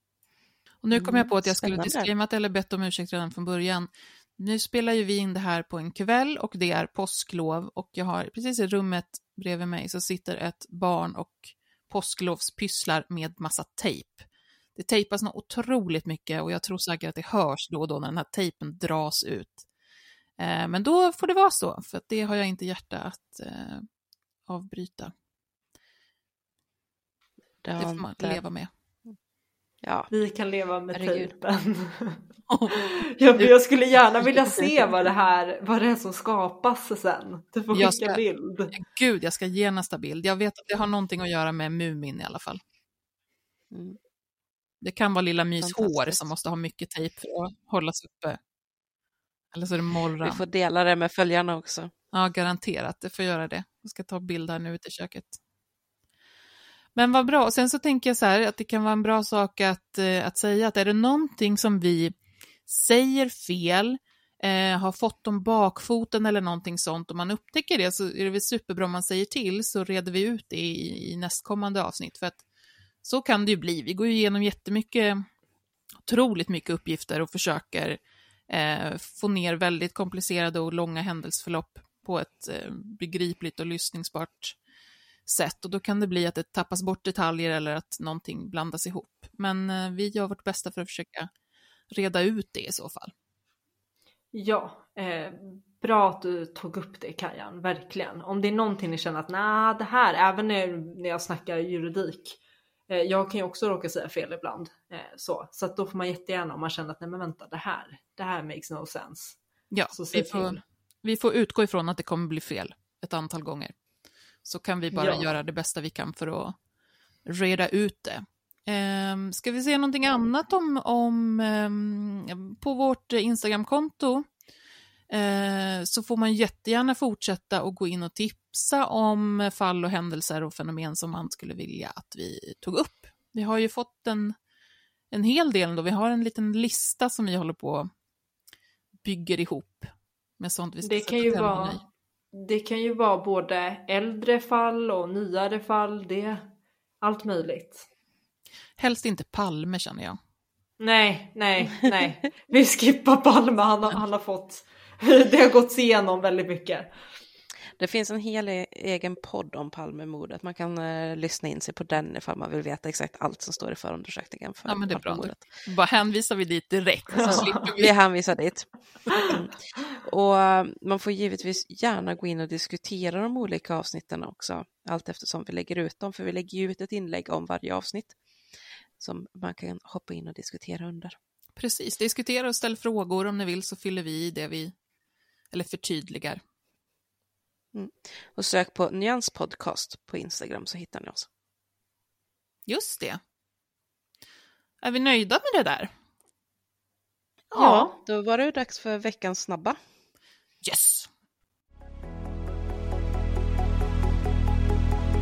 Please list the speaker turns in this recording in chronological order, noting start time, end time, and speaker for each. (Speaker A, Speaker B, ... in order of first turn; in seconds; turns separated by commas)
Speaker A: 0.8-19.7, Speaker B: 0.9-2.1, Speaker A: 20.4-23.9, Speaker A: 24.5-25.1, Speaker B: 27.6-28.4, Speaker A: 27.8-28.7, Speaker B: 29.8-30.1, Speaker C: 30.1-32.2, Speaker B: 30.9-31.3, Speaker A: 32.5-33.5, Speaker C: 32.8-38.7, Speaker A: 37.7-38.2, Speaker A: 38.7-42.6, Speaker B: 43.7-44.0, Speaker A: 44.8-48.4, Speaker B: 45.6-46.3, Speaker A: 49.5-50.4, Speaker B: 50.2-51.9, Speaker A: 52.1-55.4, Speaker A: 57.0-62.1, Speaker A: 62.7-72.4, Speaker A: 73.0-75.2, Speaker A: 76.0-78.0, Speaker A: 78.5-84.6, Speaker A: 85.3-91.3, Speaker A: 91.9-93.1, Speaker C: 94.3-109.4, Speaker A: 109.7-113.7, Speaker C: 109.9-110.6, Speaker A: 114.5-116.5, Speaker C: 114.9-115.3, Speaker A: 117.3-124.2, Speaker A: 125.1-134.3, Speaker A: 135.1-137.9, Speaker A: 139.0-141.8, Speaker C: 140.8-141.8, Speaker C: 142.3-146.5, Speaker C: 147.0-147.9, Speaker A: 148.8-150.2, Speaker C: 150.8-156.9, Speaker B: 157.8-165.4, Speaker A: 164.7-167.9, Speaker C: 167.2-167.5, Speaker B: 167.2-178.2, Speaker B: 179.0-181.2, Speaker A: 181.6-184.7, Speaker A: 185.5-186.4, Speaker B: 187.7-191.3, Speaker A: 192.7-193.2, Speaker A: 194.8-195.9, Speaker B: 197.5-199.8, Speaker C: 197.6-197.9, Speaker A: 200.6-201.1